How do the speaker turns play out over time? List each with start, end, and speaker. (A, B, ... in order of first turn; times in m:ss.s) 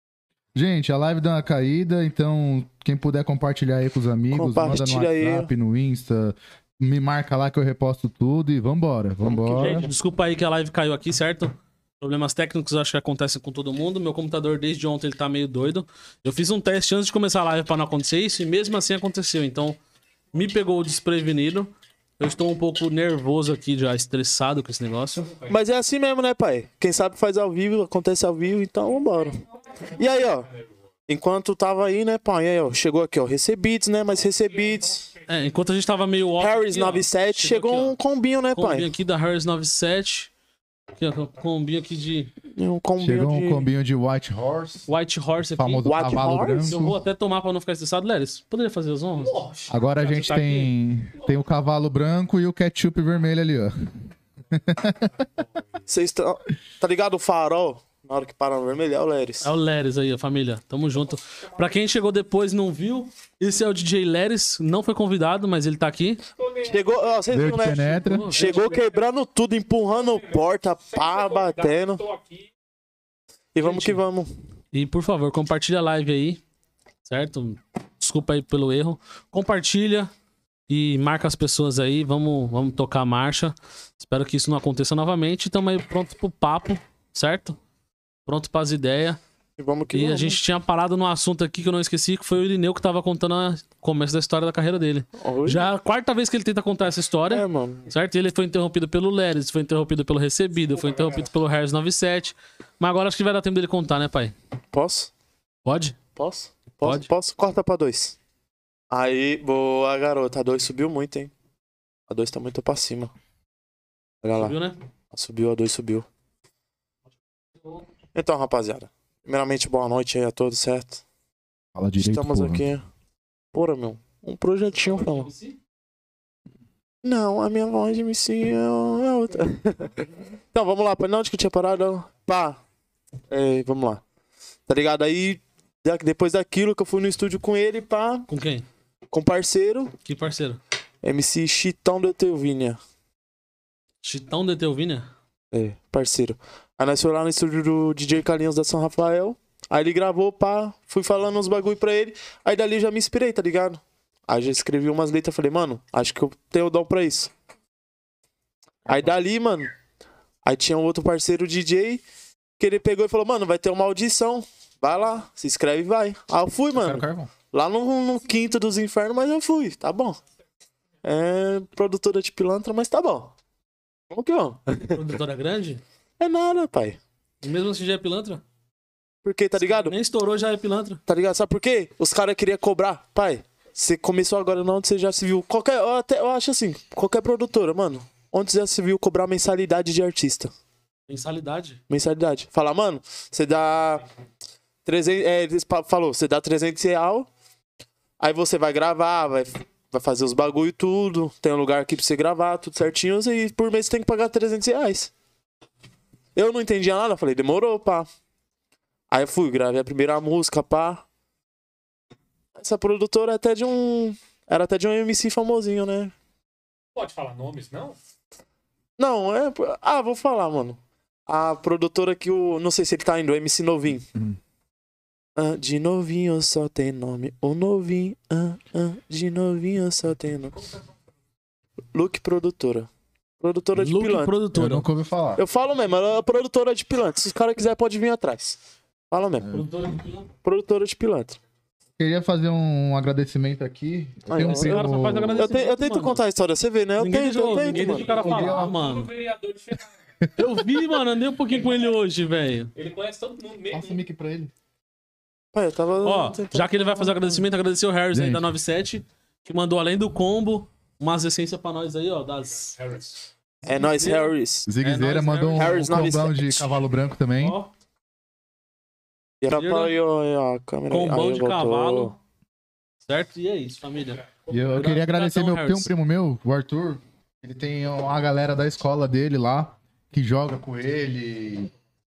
0:00.5-0:09.8 A
0:04.3-0:05.5 B
0:09.2-0:09.8 B
0:09.5-0:19.8 C
0:20.3-0:25.4 C
0:25.5-0:30.5 B
0:31.1-0:35.0 B
0:34.6-0:35.3 D
0:35.3-0:37.9 C
0:36.4-0:38.9 B
0:38.5-0:40.3 C
0:41.0-0:42.3 C
0:42.5-0:43.7 B
0:43.0-0:44.9 A
0:44.9-0:45.8 C
0:45.5-0:47.0 A
0:45.8-0:46.8 B
0:46.6-0:49.4 C
0:49.2-0:51.3 D
0:49.7-0:53.9 A
0:54.5-0:55.1 A
0:55.9-0:59.5 B
0:59.4-1:06.2 C
1:01.3-1:01.8 D
1:06.4-1:07.0 D
1:06.6-1:12.0 B
1:07.3-1:08.4 A
1:07.8-1:08.8 C
1:08.4-1:09.0 D
1:09.9-1:12.5 D
1:13.5-1:14.3 B
1:13.6-1:14.0 C
1:14.7-1:16.4 C
1:17.0-1:20.1 C
1:20.7-1:27.6 C
1:28.2-1:29.2 C
1:29.6-1:30.4 B
1:29.9-1:44.3 C
1:35.2-1:35.7 B
1:37.3-1:37.9 B
1:44.7-1:45.1 B
1:45.6-1:46.0 C
1:46.2-1:48.2 B
1:46.8-1:47.1 C
1:48.9-1:51.3 B
1:52.1-1:53.1 B
1:54.2-1:54.5 B
1:54.3-1:54.8 C
1:55.1-1:56.0 B
1:58.1-2:01.0 B
2:01.7-2:02.6 A
2:02.0-2:02.8 B
2:03.5-2:05.3 B
2:04.8-2:05.6 C
2:07.0-2:12.6 B
2:13.3-2:14.0 B
2:14.7-2:18.3 B
2:18.3-2:18.6 C
2:19.1-2:19.9 B
2:20.0-2:20.6 C
2:21.0-2:22.8 B
2:24.0-2:25.1 C
2:25.5-2:37.3 B
2:38.8-2:39.7 B
2:40.4-2:42.0 B
2:42.6-2:50.2 B
2:46.7-2:47.3 A
2:51.0-2:53.3 B
2:54.1-2:55.0 B
2:54.9-2:55.8 C
2:56.2-2:57.0 B
2:57.4-2:58.4 C
2:59.2-2:59.9 B
2:59.6-3:01.0 C
3:01.1-3:10.5 B
3:11.1-3:11.8 C
3:11.9-3:14.0 B
3:14.8-3:17.3 B
3:18.2-3:25.1 B
3:26.4-3:28.1 B
3:29.1-3:31.0 B
3:32.5-3:36.1 B
3:36.9-3:38.0 D
3:39.0-3:44.0 B
3:45.4-3:50.6 B
3:51.9-3:52.9 B
3:53.4-3:54.3 B
3:53.8-3:54.9 C
3:54.5-3:55.4 A
3:55.4-3:58.6 B
3:59.1-3:59.5 B
3:59.4-3:59.7 A
3:59.5-4:00.3 C
4:00.4-4:01.4 B
4:02.0-4:05.4 A
4:04.3-4:08.2 B
4:04.4-4:06.2 C
4:07.0-4:09.1 C
4:07.6-4:09.9 D
4:08.1-4:08.7 A
4:10.4-4:12.7 C
4:11.5-4:11.9 D
4:12.7-4:14.0 D
4:13.7-4:14.5 A
4:15.5-4:17.4 B
4:16.0-4:22.8 C
4:18.1-4:18.5 A
4:22.5-4:23.1 D
4:23.6-4:24.7 B
4:23.7-4:25.8 C
4:24.6-4:27.6 A
4:25.5-4:26.7 B
4:27.4-4:27.7 C
4:29.4-4:32.1 B
4:29.5-4:30.0 C
4:30.9-4:32.2 C
4:33.0-4:34.2 C
4:34.2-4:34.8 D
4:34.5-4:41.7 A
4:34.8-4:35.9 C